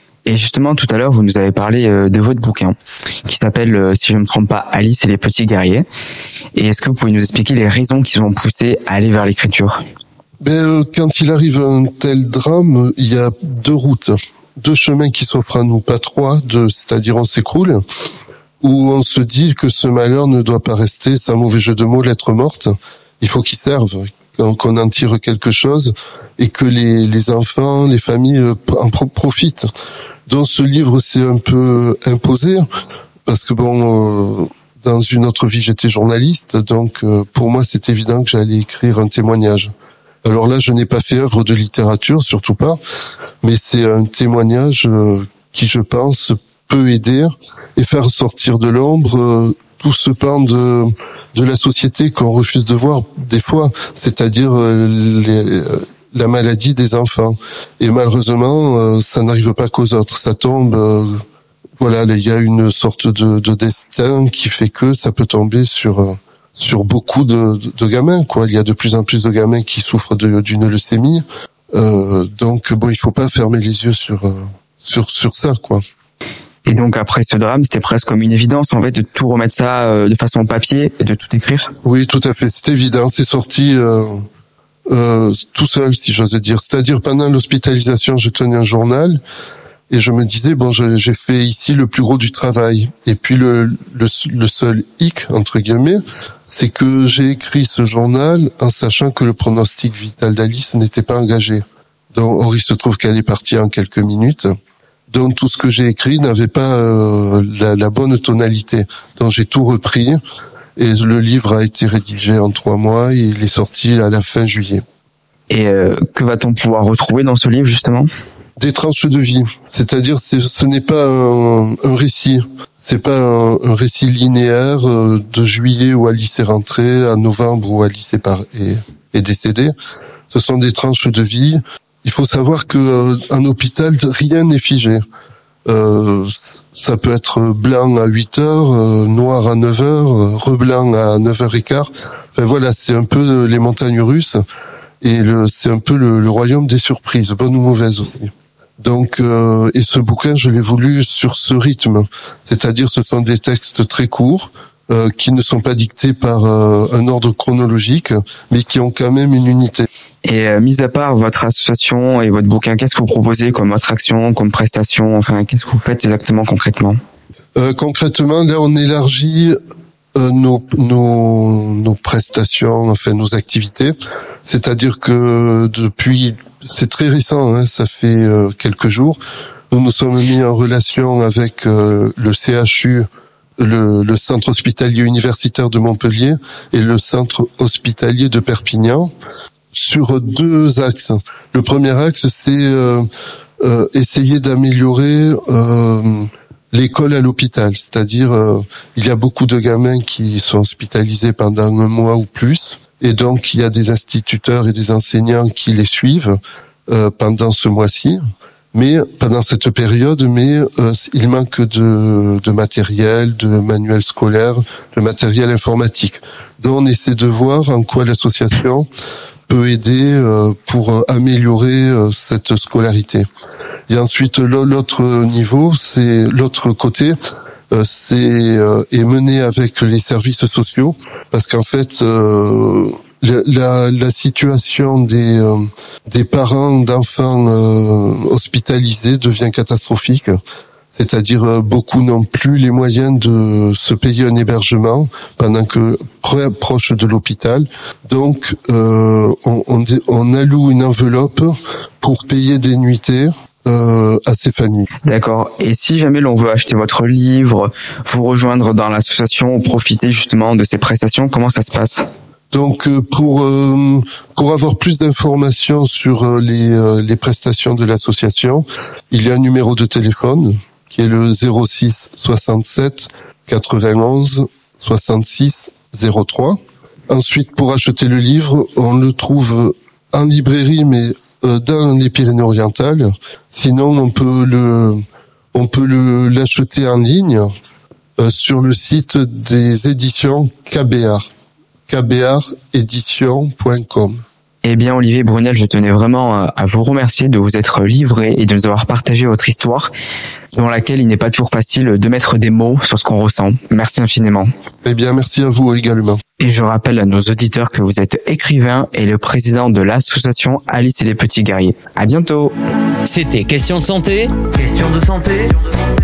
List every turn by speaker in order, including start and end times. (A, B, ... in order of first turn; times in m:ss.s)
0:00.3-0:02.7 A
0:03.3-0:05.9 A
0:06.6-0:09.8 A
0:10.4-0:17.8 B
0:18.6-0:29.7 B
0:30.3-0:32.6 B
0:33.3-0:39.7 B
0:40.2-0:42.8 B
0:43.4-1:01.2 B
1:01.8-1:15.8 B
1:16.6-1:21.7 A
1:21.8-1:24.2 B
1:24.9-1:29.2 B
1:29.9-1:41.6 B
1:42.1-1:44.5 B
1:45.1-1:50.2 B
1:50.8-1:54.8 B
1:55.5-1:58.1 A
1:58.6-2:09.7 B
2:10.3-2:15.0 B
2:15.7-2:24.4 B
2:25.0-2:39.9 B
2:40.2-2:47.0 A
2:47.6-2:49.6 B
2:50.2-2:59.2 B
2:59.7-3:03.1 B
3:03.6-3:09.1 B
3:09.7-3:13.0 B
3:13.6-3:28.2 B
3:28.7-3:38.9 B
3:39.5-3:43.3 B
3:43.9-3:47.2 B
3:47.7-4:00.4 B
4:01.0-4:14.9 B
4:15.1-4:22.1 A
4:22.5-4:36.6 B
4:37.1-4:45.0 B
4:45.5-4:47.5 B
4:48.2-4:51.3 B
4:51.9-4:54.2 B
4:54.6-4:59.9 A
5:00.6-5:04.5 A
5:04.8-5:06.2 B
5:06.4-5:12.5 A
5:13.1-5:15.6 C